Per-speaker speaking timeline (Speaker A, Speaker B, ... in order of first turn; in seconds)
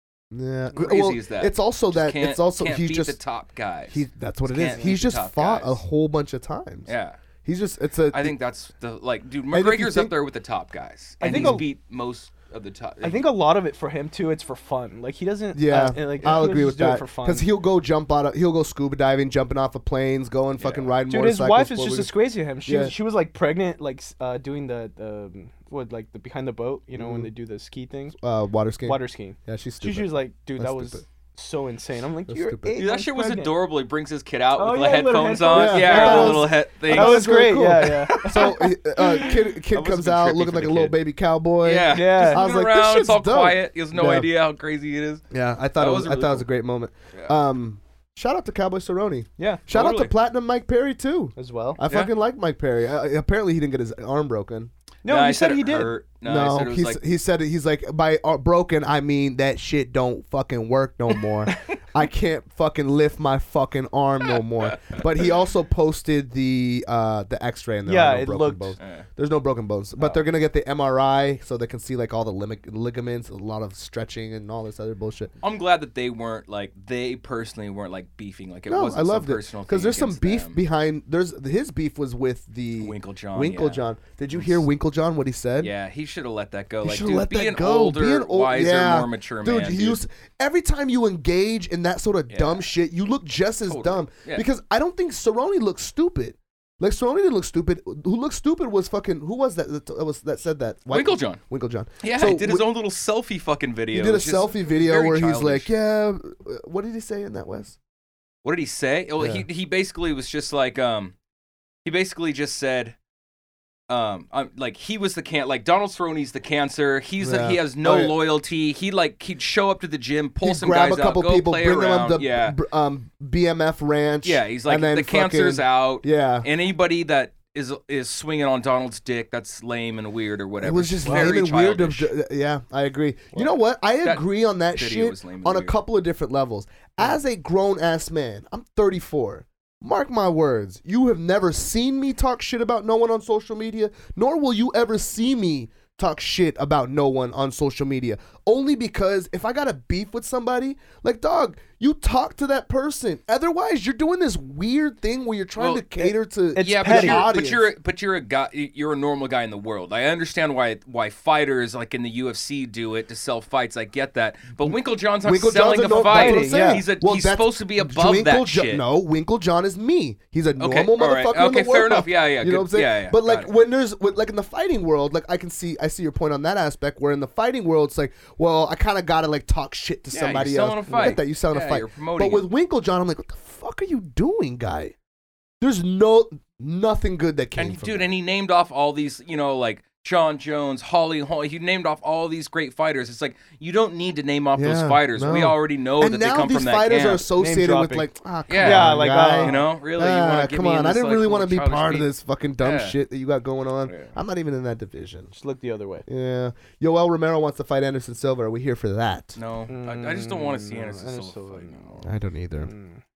Speaker A: 0.3-3.2, 3.9-6.9, 7.5-8.4, 9.5-10.1, 11.3-11.6, 15.5-22.9, 27.0-27.3, 28.2-31.0, 32.3-32.8, 35.5-44.3, 45.3-54.7, 56.2-75.3, 78.7-85.7, 86.8-102.7, 103.9-107.8, 109.2-109.5, 117.2-118.1, 120.4-126.5, 130.6-157.7, 165.2-184.9, 185.6-188.1, 194.6-205.3, 206.1-209.4, 212.1-212.7
Speaker B: 0.8-5.8, 6.9-7.2, 8.1-13.3, 20.6-20.9, 32.8-37.3, 38.1-41.0, 41.6-46.5, 49.7-50.1, 55.0-57.0, 64.7-65.0, 68.8-69.1, 70.0-70.2, 75.4-80.6, 82.8-84.7, 85.6-90.0, 92.3-92.7, 93.7-94.5, 100.9-101.4, 102.0-105.7, 108.4-111.2, 111.8-113.0, 113.9-122.6, 124.2-132.1, 134.0-135.8, 155.6-155.8, 156.6-168.8, 170.6-173.5, 180.1-182.5, 187.6-197.3, 198.5-202.1, 202.6-203.0, 203.8-204.2, 209.4-212.1
Speaker C: 11.2-11.7, 13.0-17.5, 21.1-28.2, 28.9-33.5, 34.6-38.6, 41.9-42.5, 49.4-49.6, 51.4-51.8, 55.0-56.0, 67.9-68.8, 131.1-131.3, 156.6-157.3, 166.0-166.9, 197.4-199.6, 205.3-206.1, 209.7-213.0